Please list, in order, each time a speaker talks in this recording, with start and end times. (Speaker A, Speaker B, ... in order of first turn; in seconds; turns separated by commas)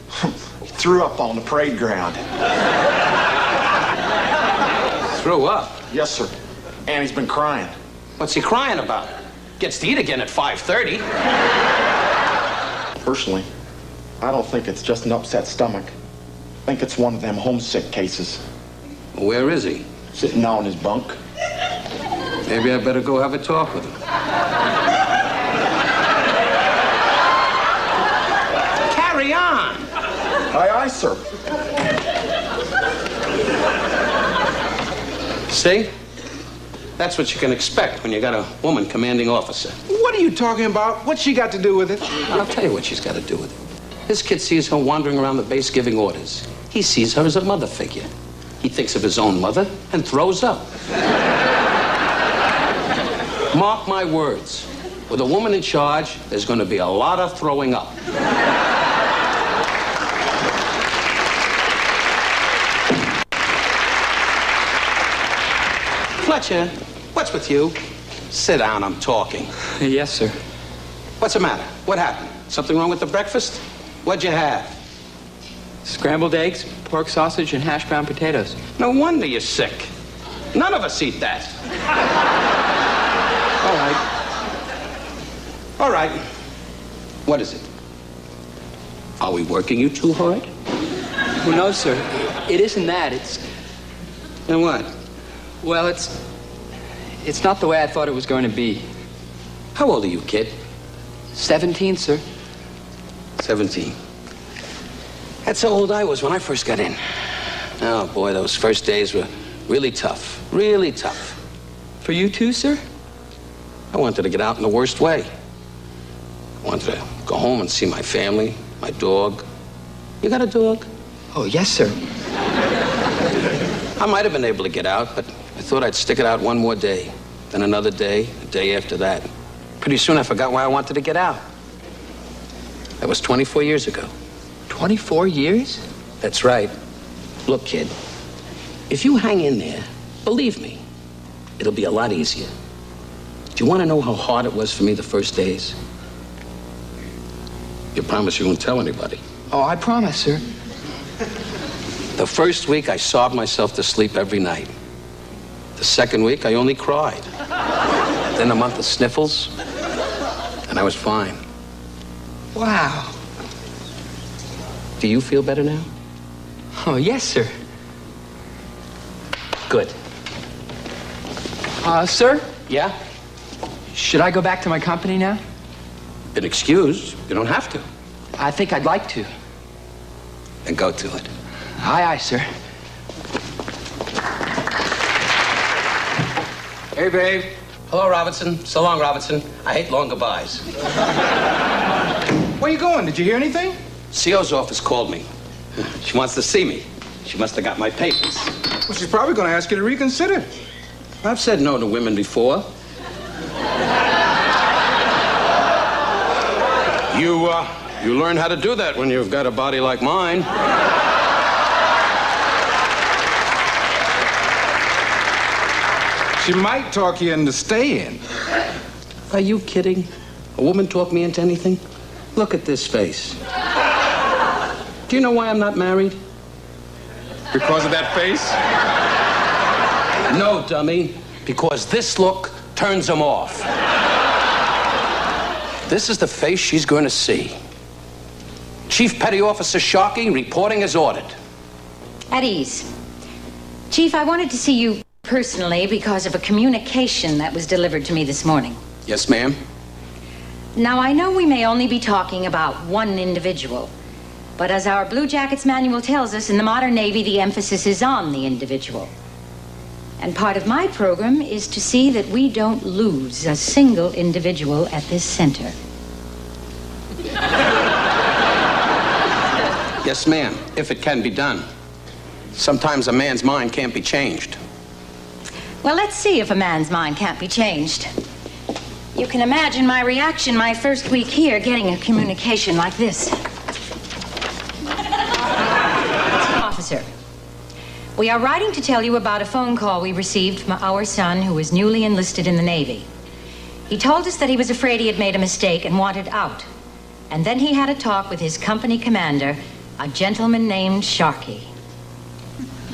Speaker A: 0.2-2.2, Speaker B: 5.1-5.8, Speaker A: 5.9-6.3, Speaker A: 6.8-7.7, Speaker B: 8.2-11.0, Speaker A: 13.0-13.5, Speaker A: 14.2-15.9, Speaker A: 16.6-18.4, Speaker B: 19.1-19.9, Speaker A: 20.1-21.2, Speaker B: 22.4-23.9, Speaker B: 28.9-29.9, Speaker A: 30.5-31.2, Speaker B: 35.5-35.9, Speaker B: 37.0-39.8, Speaker C: 39.9-42.1, Speaker B: 42.3-43.5, Speaker B: 44.1-48.1, Speaker B: 48.6-50.7, Speaker B: 53.5-58.0, Speaker B: 66.2-67.8, Speaker B: 68.3-69.5, Speaker D: 69.8-70.3, Speaker B: 71.2-74.7, Speaker D: 75.8-78.6, Speaker B: 78.8-79.9, Speaker B: 80.5-81.5, Speaker D: 83.6-84.0, Speaker B: 85.8-86.2, Speaker B: 87.2-87.6, Speaker B: 89.2-90.5, Speaker D: 91.4-93.4, Speaker B: 94.5-94.9, Speaker D: 95.6-96.2, Speaker D: 97.2-98.8, Speaker B: 99.7-100.5, Speaker D: 101.3-102.2, Speaker B: 103.4-104.0, Speaker B: 105.4-107.0, Speaker B: 107.8-111.4, Speaker D: 112.0-112.8, Speaker B: 113.9-115.3, Speaker B: 116.6-119.4, Speaker B: 120.2-120.9, Speaker D: 121.3-122.0, Speaker B: 124.0-129.3, Speaker B: 129.8-131.4, Speaker B: 133.0-134.1, Speaker D: 134.7-135.8, Speaker B: 136.2-136.7, Speaker B: 137.4-137.9, Speaker B: 138.9-140.8, Speaker B: 141.6-142.5, Speaker B: 143.5-145.8, Speaker B: 147.9-149.2, Speaker D: 149.5-150.4, Speaker B: 152.2-154.7, Speaker B: 155.8-157.2, Speaker B: 158.3-159.5, Speaker B: 160.7-161.4, Speaker D: 162.5-163.1, Speaker B: 165.0-165.9, Speaker D: 166.8-167.5, Speaker B: 169.7-169.9, Speaker D: 171.8-172.5, Speaker B: 172.7-172.9, Speaker D: 173.9-175.4, Speaker B: 176.3-177.8, Speaker D: 178.4-179.3, Speaker B: 180.6-181.3, Speaker D: 181.8-182.5, Speaker C: 186.9-187.5, Speaker B: 187.9-190.6, Speaker C: 192.6-193.8, Speaker B: 194.1-198.5, Speaker C: 198.8-200.5, Speaker B: 201.2-202.7, Speaker B: 207.1-210.5, Speaker C: 216.4-218.2, Speaker B: 219.3-221.8, Speaker B: 222.3-223.4, Speaker B: 225.1-226.2, Speaker C: 227.5-228.6, Speaker B: 230.3-233.7, Speaker B: 235.9-237.5, Speaker B: 238.9-241.3, Speaker E: 242.3-242.9, Speaker E: 243.9-248.8, Speaker B: 249.1-249.6, Speaker E: 250.8-253.9, Speaker E: 254.6-259.1, Speaker E: 260.2-265.7, Speaker B: 270.0-271.6, Speaker B: 272.5-274.6, Speaker E: 275.8-278.1, Speaker E: 279.1-283.4, Speaker E: 286.5-287.1, Speaker E: 288.1-293.1, Speaker E: 293.9-296.7, Speaker E: 297.3-301.7